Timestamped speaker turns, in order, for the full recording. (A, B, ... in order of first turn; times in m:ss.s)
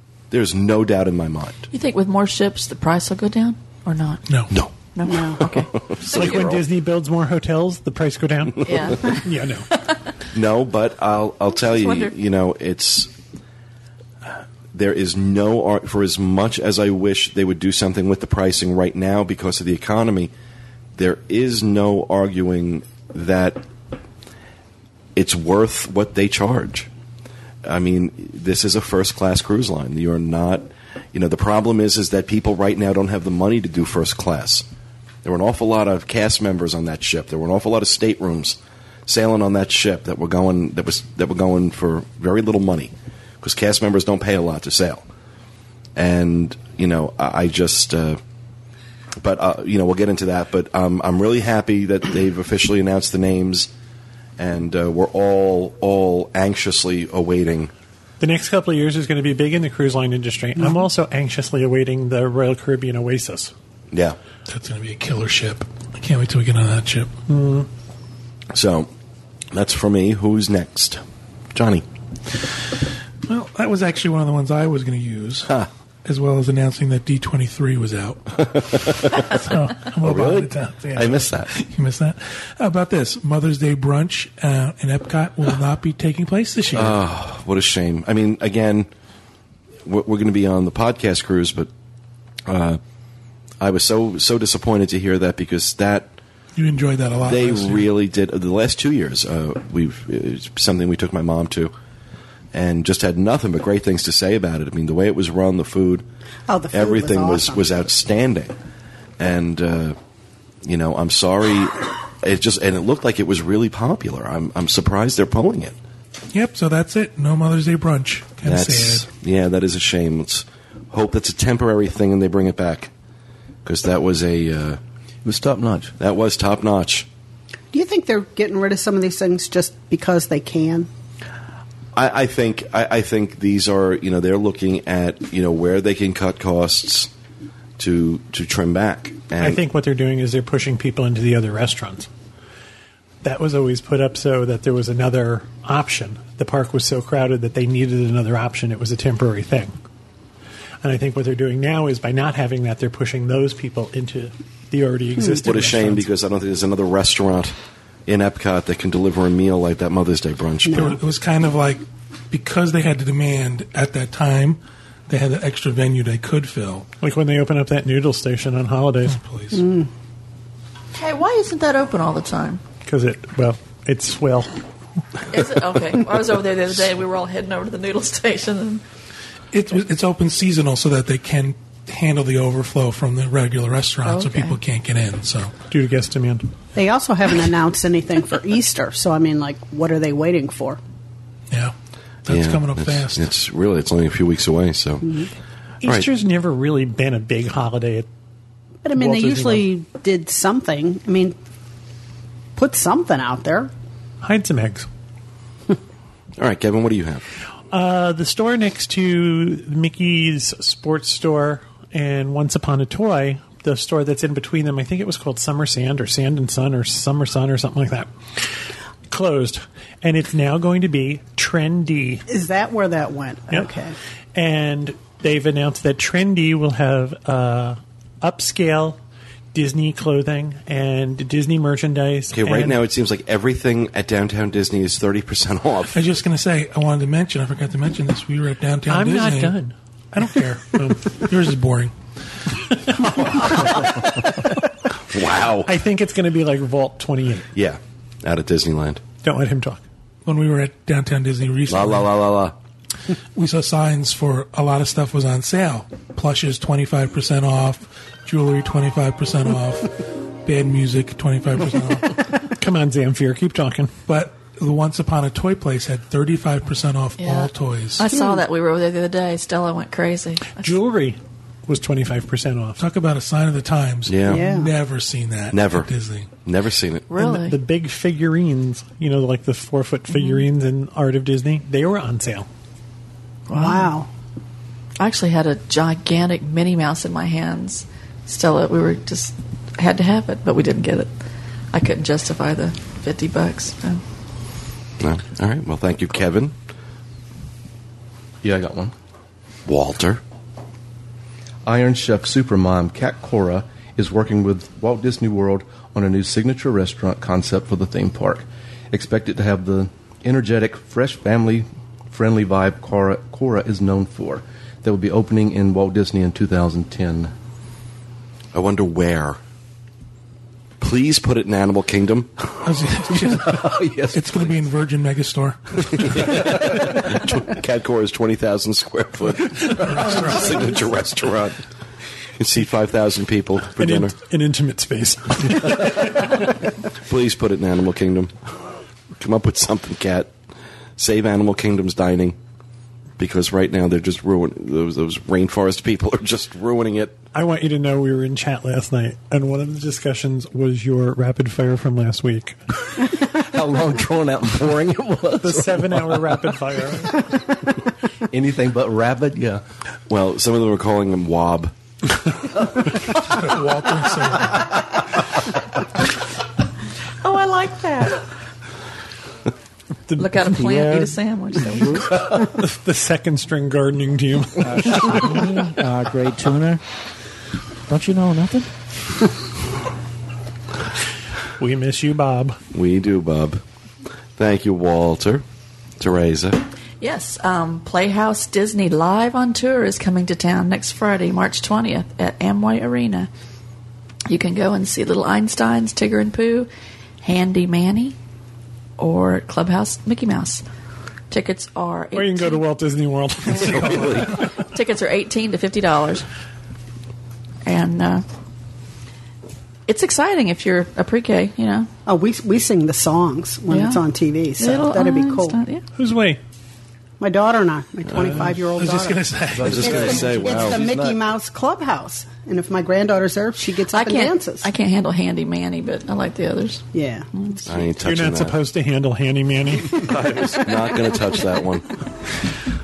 0:00.3-0:01.7 A
0:01.7-0:06.6 B
0:04.5-0:06.6 A
0:05.1-0:05.4 C
0:06.1-0:09.7 D
0:08.6-0:10.1 B
0:10.3-0:13.1 A
0:11.5-0:12.2 B
0:14.7-0:20.3 A
0:21.0-0:23.6 A
0:25.2-0:26.9 A
0:27.6-0:34.7 A
0:35.2-0:45.1 A
0:46.0-0:48.2 A
0:49.2-0:53.7 A
0:54.4-0:57.7 A
0:58.2-1:03.5 D
1:03.9-1:04.2 A
1:04.5-1:07.1 E
1:07.3-1:07.7 D
1:08.5-1:08.9 A
1:09.5-1:11.0 A
1:11.5-1:11.9 A
1:13.3-1:15.5 E
1:16.0-1:27.0 E
1:18.4-1:19.3 A
1:20.0-1:21.5 A
1:26.7-1:28.9 A
1:29.9-1:31.7 A
1:32.5-1:32.8 A
1:33.6-1:36.1 A
1:36.6-1:37.9 E
1:37.2-1:41.7 A
1:42.5-1:46.0 A
1:46.5-1:47.6 C
1:46.7-1:48.5 A
1:49.2-1:50.0 A
1:50.6-1:55.8 A
1:56.3-1:59.1 E
1:58.4-2:02.9 A
2:03.6-2:04.8 A
2:05.2-2:05.9 F
2:06.0-2:07.1 A
2:07.7-2:10.9 C
2:12.0-2:17.1 A
2:17.8-2:19.6 A
2:19.4-2:22.1 D
2:23.2-2:29.8 D
2:30.8-2:36.1 D
2:35.4-2:37.6 A
2:38.1-2:41.0 A
2:40.7-2:46.9 E
2:47.0-2:49.2 D
2:49.1-2:49.6 E
2:49.6-2:49.9 C
2:50.9-2:52.6 B
2:52.9-2:54.6 D
2:55.3-2:58.8 B
2:59.5-3:05.6 E
3:04.0-3:04.6 B
3:05.7-3:06.5 D
3:06.8-3:10.8 C
3:12.3-3:13.3 E
3:12.3-3:15.2 A
3:15.8-3:18.1 D
3:18.8-3:21.4 C
3:19.0-3:19.7 D
3:22.6-3:23.7 C
3:24.2-3:24.9 D
3:26.4-3:27.2 A
3:27.7-3:38.1 D
3:39.1-3:42.3 D
3:42.3-3:44.0 C
3:44.3-3:49.0 D
3:49.5-3:52.8 D
3:52.3-3:56.0 A
3:55.9-3:59.6 E
3:58.9-4:01.0 D
4:00.1-4:01.9 E
4:02.9-4:04.6 D
4:03.0-4:03.6 E
4:05.1-4:05.7 A
4:05.6-4:07.5 D
4:07.6-4:09.0 A
4:09.2-4:09.8 D
4:10.3-4:12.1 E
4:11.7-4:12.6 A
4:13.4-4:22.3 E
4:22.4-4:23.9 D
4:24.1-4:28.0 E
4:27.2-4:30.8 B
4:28.1-4:28.4 C
4:30.6-4:32.8 D
4:32.8-4:36.3 E
4:34.1-4:34.6 A
4:34.3-4:34.7 C
4:35.5-4:35.9 A
4:36.4-4:37.1 A
4:37.1-4:37.6 B
4:37.2-4:42.5 D
4:40.1-4:40.4 B
4:43.5-4:43.9 B
4:43.6-4:44.1 C
4:45.0-4:51.1 B
4:51.7-4:54.0 B
4:55.0-4:56.6 A
4:58.4-4:58.9 F
4:59.7-5:00.2 A
5:01.6-5:17.3 F
5:18.5-5:19.4 A
5:20.8-5:22.7 A
5:22.6-5:26.4 E
5:23.3-5:24.4 F
5:25.9-5:31.6 A
5:29.7-5:30.8 E
5:32.4-5:34.2 A
5:33.8-5:36.6 D
5:37.0-5:38.4 A
5:39.2-5:40.3 A
5:41.0-5:42.4 A
5:43.2-5:47.2 A
5:47.3-5:52.6 D
5:53.0-5:56.3 F
5:55.4-5:57.3 D
5:58.3-5:59.6 F
6:00.1-6:01.7 A
6:03.1-6:04.8 E
6:07.2-6:08.2 B
6:10.1-6:11.1 D
6:10.2-6:12.3 B
6:11.8-6:15.5 D
6:15.6-6:16.8 G
6:17.9-6:18.7 G
6:21.6-6:22.6 D
6:22.7-6:23.6 A
6:24.4-6:25.4 A
6:26.0-6:26.6 A
6:27.0-6:33.3 B
6:34.3-6:36.7 B
6:37.2-6:38.2 B
6:39.0-6:40.6 B
6:41.3-6:42.6 B
6:42.1-6:44.4 D
6:43.5-6:46.3 B
6:43.6-6:44.5 E
6:43.7-6:44.2 F
6:47.6-6:48.2 B
6:49.9-6:51.9 B
6:52.1-6:55.6 C
6:53.7-6:54.0 B
6:54.6-6:55.8 B
6:56.0-6:56.4 D
6:57.2-7:04.7 C
6:58.1-6:58.6 A
6:58.8-7:00.0 E
6:59.5-7:01.2 F
6:59.6-7:00.8 A
7:03.9-7:07.9 B
7:06.9-7:07.3 C
7:07.7-7:08.6 A
7:08.0-7:10.2 D
7:09.9-7:12.0 A